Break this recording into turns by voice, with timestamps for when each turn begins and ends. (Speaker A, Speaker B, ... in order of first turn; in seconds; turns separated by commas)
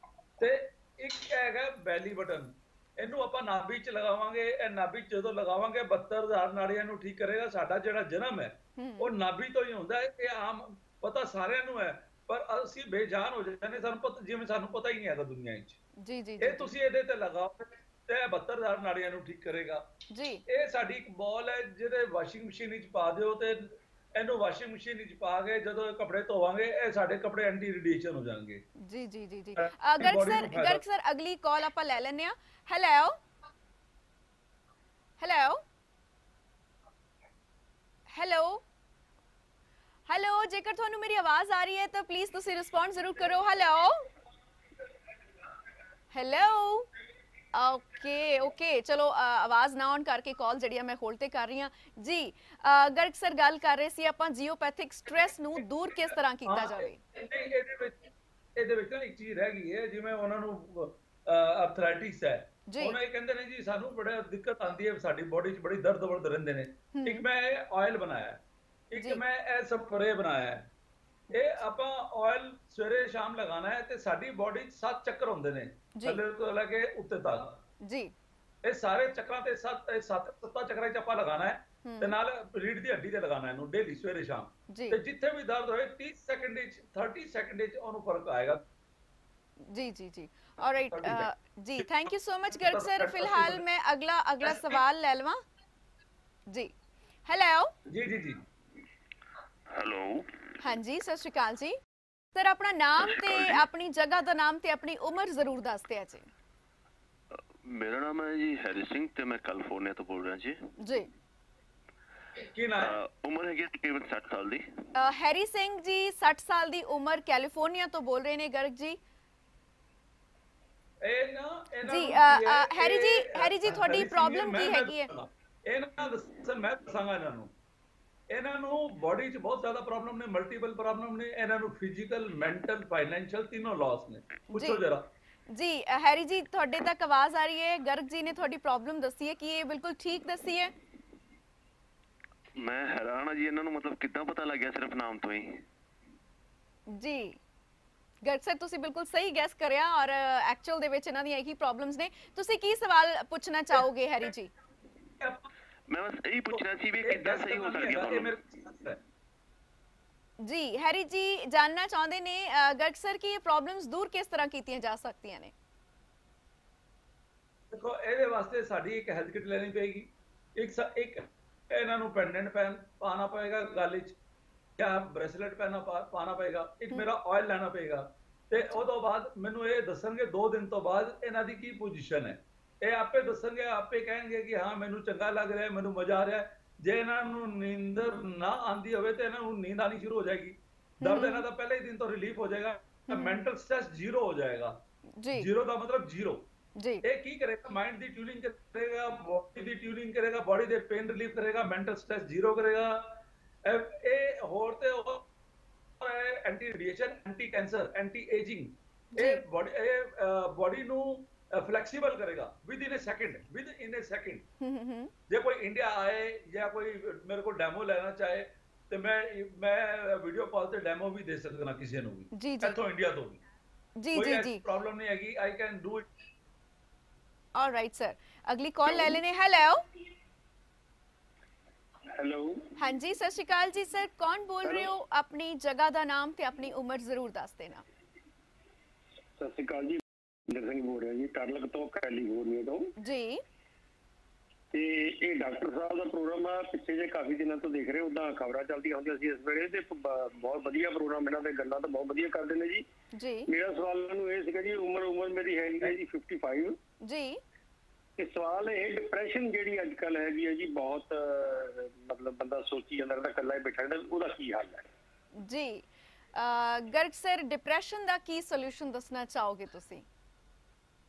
Speaker A: 0.4-15.8, Speaker B: 8.8-9.1, Speaker B: 16.0-16.7, Speaker A: 16.4-19.9, Speaker B: 20.1-20.4, Speaker A: 20.4-28.6, Speaker B: 28.8-33.2, Speaker A: 29.6-30.8, Speaker B: 35.2-35.6, Speaker B: 38.1-38.6, Speaker B: 40.1-44.0, Speaker B: 46.1-46.9, Speaker B: 47.5-57.0, Speaker A: 56.5-70.7, Speaker B: 62.7-63.0, Speaker B: 66.9-67.2, Speaker B: 69.0-69.2, Speaker A: 71.3-77.6, Speaker B: 77.8-78.1, Speaker A: 78.6-88.6, Speaker B: 81.8-82.1, Speaker B: 84.7-85.0, Speaker B: 89.7-95.4, Speaker A: 90.9-91.9, Speaker A: 92.6-93.6, Speaker B: 97.2-97.7, Speaker A: 97.9-98.5, Speaker C: 99.7-100.4, Speaker B: 100.6-101.8, Speaker B: 102.3-106.3, Speaker C: 103.0-103.6, Speaker C: 107.6-110.6, Speaker B: 110.8-111.1, Speaker A: 112.4-112.9, Speaker C: 112.8-114.7, Speaker B: 114.9-119.0, Speaker A: 121.0-127.5, Speaker B: 121.8-125.1, Speaker A: 128.3-135.1, Speaker B: 134.5-134.8, Speaker B: 135.5-140.7, Speaker C: 142.6-145.6, Speaker B: 146.9-147.4, Speaker B: 148.2-154.5, Speaker A: 155.2-155.4, Speaker C: 155.9-158.3, Speaker A: 156.5-159.0, Speaker B: 160.4-165.5, Speaker A: 167.7-174.2, Speaker A: 174.8-194.8, Speaker B: 191.0-191.4, Speaker B: 193.1-193.4, Speaker B: 195.2-195.5, Speaker A: 195.3-196.4, Speaker B: 196.8-197.0, Speaker A: 197.0-205.3, Speaker A: 206.0-214.5, Speaker B: 209.1-209.4, Speaker B: 214.6-215.1, Speaker A: 215.3-223.4, Speaker B: 222.3-222.8, Speaker B: 224.0-224.6, Speaker A: 224.1-226.1, Speaker B: 227.5-229.8, Speaker D: 232.1-232.7, Speaker B: 232.8-237.8, Speaker D: 239.4-242.9, Speaker B: 243.0-243.4, Speaker D: 244.7-252.8, Speaker B: 253.1-253.5, Speaker D: 253.5-256.8, Speaker B: 257.0-257.4, Speaker D: 258.2-264.9, Speaker B: 265.4-270.0